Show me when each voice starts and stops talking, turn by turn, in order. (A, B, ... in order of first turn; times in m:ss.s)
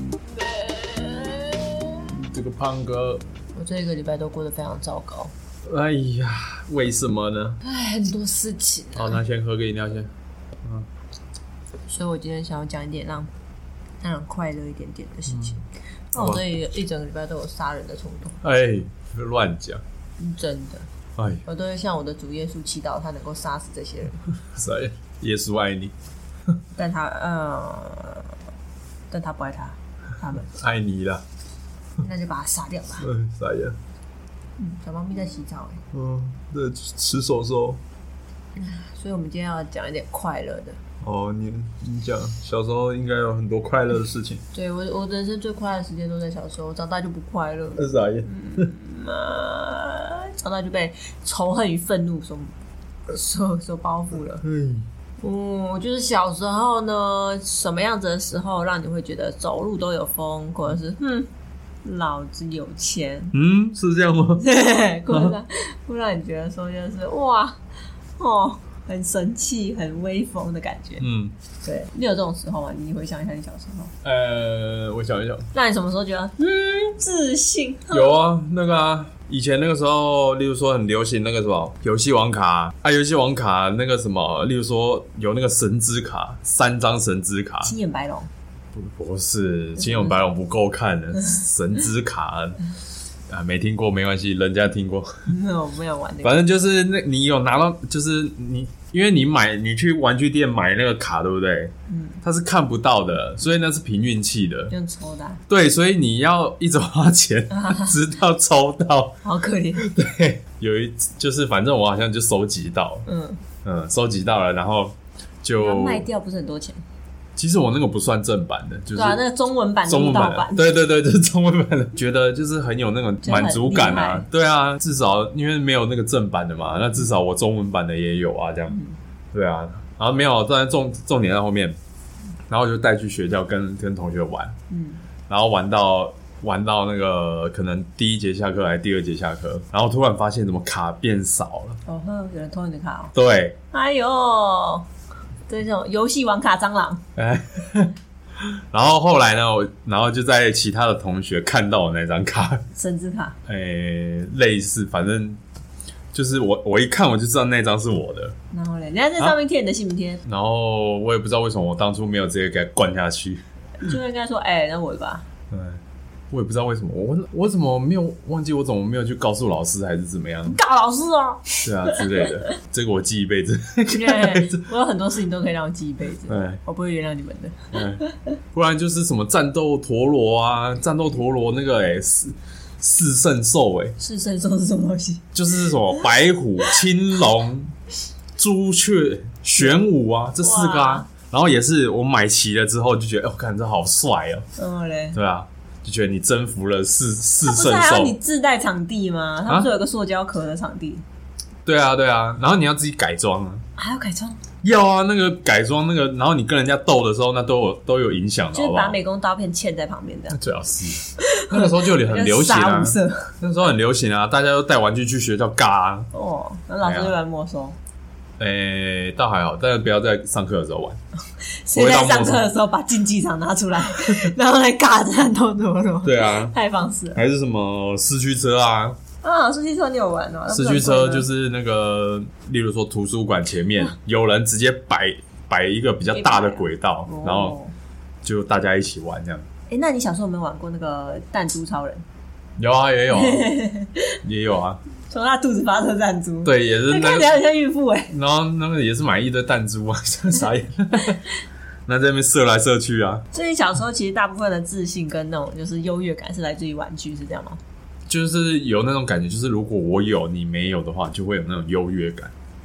0:00.7-0:02.0 A
0:02.1-0:03.2 B
0:03.6-0:05.3 A
0:05.7-0:07.6 B
0:07.6-0:09.2 A
0:09.0-0:10.1 B
0:11.9-0:13.3 A
0:14.0-0:18.4 A
0:15.3-0:15.6 B
0:16.2-0:16.4 B
0:18.4-0:19.8 B
0:20.2-0:20.9 A
0:21.2-0:21.4 B
0:21.4-0:24.2 A
0:24.4-0:25.9 B
0:26.8-0:28.3 A
0:29.1-0:30.5 A
0:30.5-0:31.2 B
0:32.0-0:33.1 A
0:33.0-0:33.8 B
0:34.6-0:35.8 A
0:35.9-0:37.8 B
0:38.6-0:40.8 A
0:41.0-0:44.4 B
0:44.5-0:52.5 A
0:47.8-0:48.7 B
0:53.1-0:54.4 A
0:54.4-0:54.9 B
0:55.2-1:01.3 A
1:01.8-1:03.3 A
1:03.3-1:04.4 B
1:04.4-1:07.6 A
1:05.1-1:05.4 B
1:08.2-1:11.1 A
1:11.0-1:11.3 B
1:11.6-1:13.9 A
1:14.0-1:15.5 B
1:15.5-1:18.2 A
1:17.9-1:27.8 B
1:27.6-1:28.3 A
1:28.7-1:32.6 B
1:29.8-1:30.2 A
1:33.3-1:35.1 B
1:35.3-1:36.4 A
1:36.2-1:41.7 B
1:41.9-1:42.2 A
1:42.2-1:44.7 B
1:44.7-1:45.4 A
1:45.5-1:49.2 B
1:47.5-1:48.0 A
1:49.2-1:49.9 A
1:49.8-1:53.0 B
1:53.1-1:53.4 A
1:53.6-1:56.1 B
1:55.6-1:56.8 A
1:57.4-1:59.2 B
1:59.0-2:00.7 A
1:59.9-2:08.8 B
2:03.2-2:04.3 A
2:08.7-2:09.0 A
2:09.3-2:11.8 B
2:12.5-2:14.6 B
2:14.7-2:15.0 A
2:15.3-2:21.8 B
2:21.9-2:23.1 A
2:23.1-2:23.6 B
2:23.7-2:24.9 A
2:25.5-2:27.0 A
2:27.2-2:32.6 B
2:32.8-2:33.4 A
2:33.5-2:35.4 B
2:36.1-2:38.4 B
2:38.5-2:40.2 A
2:40.2-2:43.4 B
2:43.8-2:45.2 A
2:45.5-2:50.6 B
2:50.5-2:52.4 A
2:51.6-2:54.6 B
2:53.9-2:58.4 A
2:56.3-2:56.6 B
2:57.7-2:58.0 B
2:58.5-3:04.0 B
3:04.0-3:06.1 A
3:05.3-3:07.7 B
3:08.4-3:14.4 B
3:10.4-3:11.1 A
3:14.6-3:15.2 A
3:15.1-3:18.2 B
3:17.4-3:21.0 A
3:21.7-3:23.6 B
3:23.8-3:24.4 A
3:24.6-3:29.0 B
3:28.5-3:30.4 A
3:30.3-3:36.1 B
3:31.2-3:33.4 A
3:36.1-3:37.8 A
3:36.8-3:37.1 B
3:38.4-3:41.0 B
3:41.6-3:47.2 A
3:41.7-3:42.5 B
3:46.0-3:46.5 B
3:47.1-3:49.0 B
3:49.2-3:51.3 A
3:50.5-3:57.6 B
3:56.1-3:57.7 A
3:58.2-3:59.4 B
3:59.7-4:02.0 A
4:02.6-4:03.6 B
4:03.1-4:04.2 A
4:04.2-4:04.8 B
4:05.1-4:08.1 A
4:06.4-4:07.4 B
4:08.1-4:11.2 B
4:11.9-4:13.2 B
4:13.3-4:17.6 A
4:18.1-4:22.3 B